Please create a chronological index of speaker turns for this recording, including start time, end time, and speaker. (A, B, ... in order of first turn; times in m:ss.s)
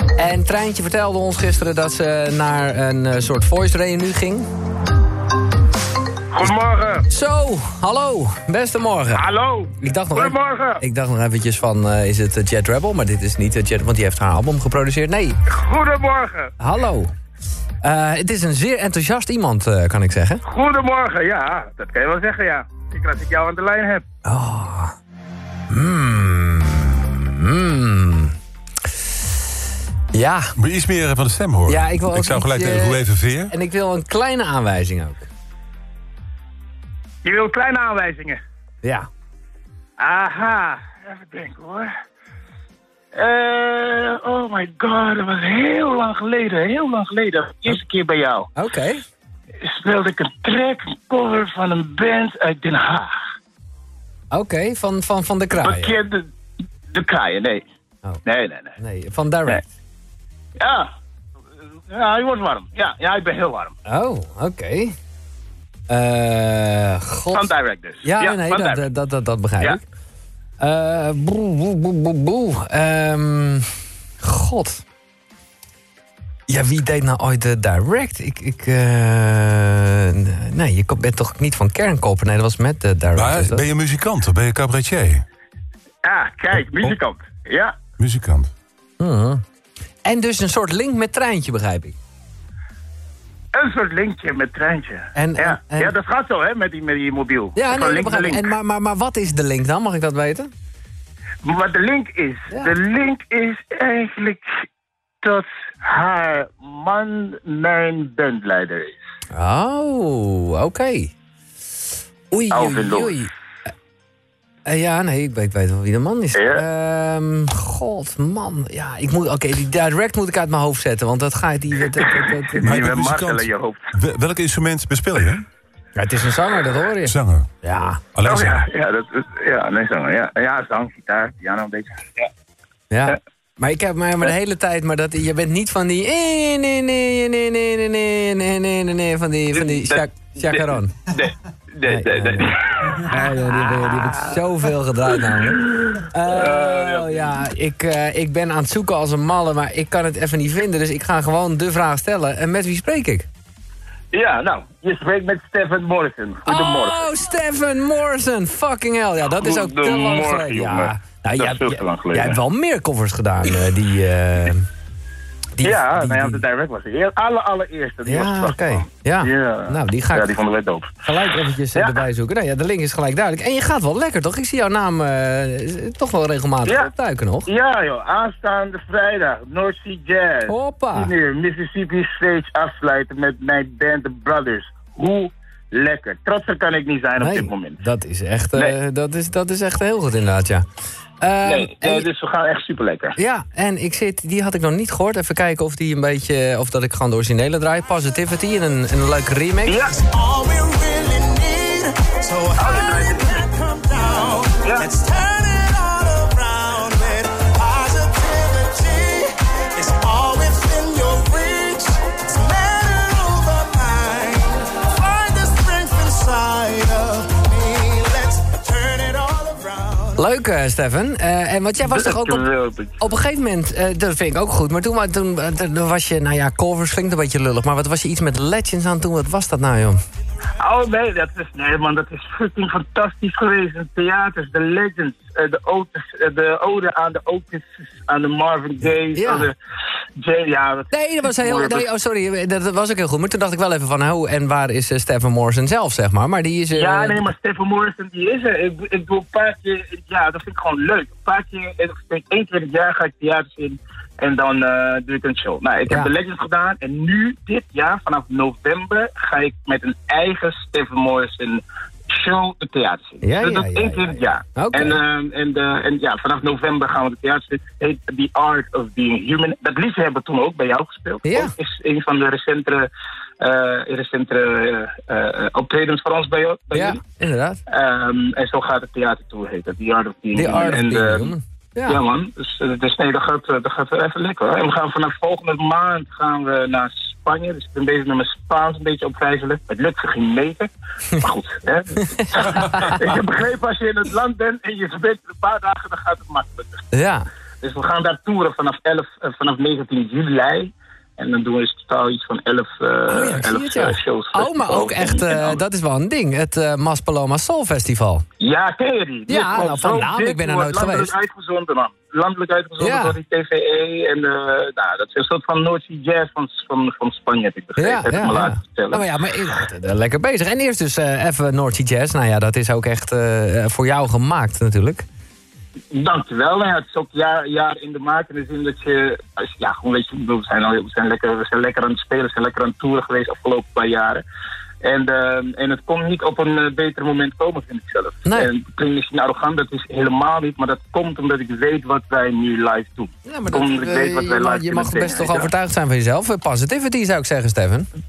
0:00.2-0:04.4 A
0:06.3-0:07.1 B
0:07.1-0:09.2 A
0:09.1-0:10.8 B
0:09.8-0:15.4 A
0:15.5-0:16.5 B
0:16.6-0:17.1 A
0:17.8-0:20.4 A
0:20.4-0:24.0 B
0:24.2-0:24.9 A
0:25.7-0:28.3 A
0:30.1-0:30.5 A
0:30.6-0:33.5 C
0:31.7-0:35.3 A
0:37.2-0:38.4 B
0:38.8-0:39.1 A
0:40.0-0:41.9 B
0:43.1-0:48.5 B
0:48.6-0:49.0 A
0:49.6-0:53.2 B
0:54.3-0:56.0 A
0:55.5-0:56.3 B
0:56.9-0:57.6 B
0:58.2-0:58.7 B
0:58.8-0:59.7 A
1:00.6-1:00.9 B
1:01.9-1:03.7 B
1:03.9-1:04.9 A
1:05.9-1:07.5 A
1:07.3-1:08.8 B
1:08.0-1:09.8 A
1:10.6-1:13.7 A
1:14.2-1:14.8 A
1:16.5-1:23.6 A
1:23.1-1:25.2 C
1:26.0-1:27.7 B
1:28.0-1:28.5 C
1:29.0-1:29.4 A
1:30.0-1:32.0 A
1:33.5-1:38.5 B
1:35.1-1:35.9 A
1:37.6-1:40.5 A
1:41.4-1:44.6 B
1:45.2-1:49.0 B
1:49.3-1:51.1 A
1:52.3-1:53.3 A
1:52.5-1:53.1 B
1:54.6-2:02.9 A
1:56.4-1:56.6 B
2:01.9-2:03.9 B
2:02.6-2:05.4 C
2:06.0-2:08.0 A
2:07.0-2:07.5 C
2:08.1-2:08.6 C
2:08.2-2:12.3 B
2:12.9-2:21.0 A
2:19.5-2:24.3 B
2:21.8-2:33.3 A
2:25.2-2:27.4 B
2:34.1-2:37.1 B
2:36.5-2:44.7 A
2:39.4-2:42.4 B
2:45.6-2:46.4 A
2:45.6-2:50.9 B
2:48.0-2:50.3 A
2:51.0-2:57.5 A
2:57.5-3:07.8 B
3:00.5-3:01.1 A
3:07.2-3:10.6 A
3:11.2-3:12.0 A
3:11.4-3:13.2 B
3:13.2-3:19.8 A
3:19.7-3:19.9 B
3:19.9-3:40.2 D
3:22.6-3:23.4 B
3:24.6-3:24.9 B
3:40.2-3:42.4 A
3:41.8-3:43.0 B
3:43.0-3:50.0 A
3:50.6-3:59.5 B
3:59.1-3:59.5 A
4:00.2-4:01.8 B
4:00.9-4:07.2 A
4:06.7-4:32.9 B
4:23.2-4:25.0 A
4:31.2-4:31.5 A
4:33.4-4:37.0 B
4:36.7-4:37.6 A
4:37.7-4:41.3 B
4:40.3-4:42.0 A
4:41.9-4:56.8 B
4:52.4-4:53.0 A
4:56.9-4:57.2 A
4:57.6-5:05.6 B
5:03.1-5:08.2 A
5:08.4-5:19.0 B
5:09.3-5:11.1 A
5:12.8-5:13.2 A
5:17.8-5:25.0 A
5:25.9-5:34.2 B
5:34.8-5:45.5 B
5:43.2-5:47.9 A